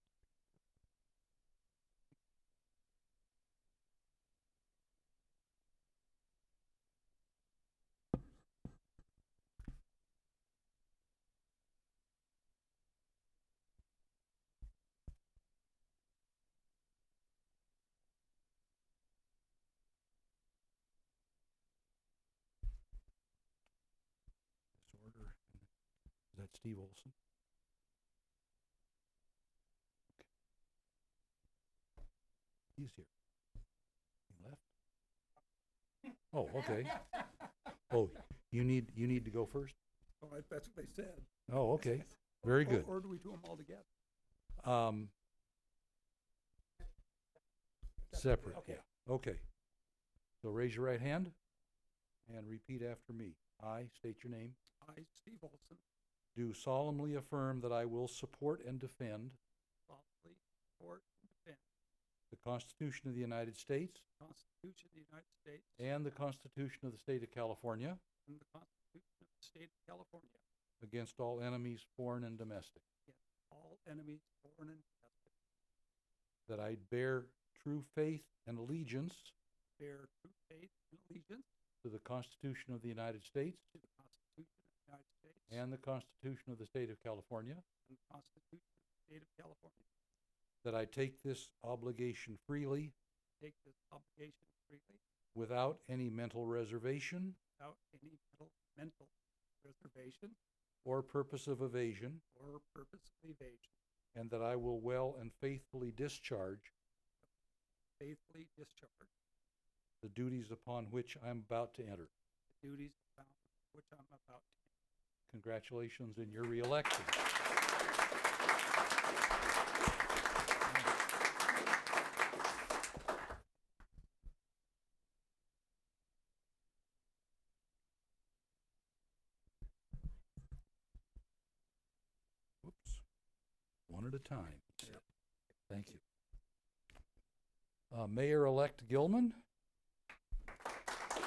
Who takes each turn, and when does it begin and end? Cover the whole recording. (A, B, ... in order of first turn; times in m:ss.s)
0:24.8-0:25.7 A
0:26.3-0:27.1 A
0:32.8-0:33.1 A
0:34.3-0:34.7 A
0:36.3-0:39.8 A
0:40.2-0:41.3 B
0:41.5-0:42.9 A
0:42.5-0:43.8 B
0:44.6-0:45.1 A
0:48.1-0:49.5 A
0:48.1-0:48.8 B
0:50.4-0:51.4 A
0:52.3-0:54.6 A
0:54.8-0:55.8 B
0:56.3-0:59.4 A
0:59.9-1:01.6 B
1:02.3-1:04.0 A
1:04.2-1:05.8 B
1:05.8-1:08.0 A
1:08.3-1:10.4 B
1:10.8-1:12.8 A
1:13.1-1:15.3 B
1:16.5-1:19.3 A
1:19.8-1:21.4 B
1:21.8-1:23.6 A
1:23.7-1:25.6 B
1:25.5-1:27.6 A
1:27.9-1:29.8 B
1:30.6-1:32.9 A
1:33.4-1:35.0 B
1:35.3-1:37.4 A
1:37.6-1:40.4 B
1:40.8-1:42.2 A
1:42.3-1:43.7 B
1:44.1-1:46.7 A
1:48.0-1:49.1 B
1:50.0-1:52.1 A
1:52.5-1:54.7 B
1:55.3-1:57.2 A
2:00.6-2:00.9 A
2:12.6-2:13.0 A
2:13.9-2:15.0 A
2:15.7-2:16.0 A
2:17.9-2:19.4 A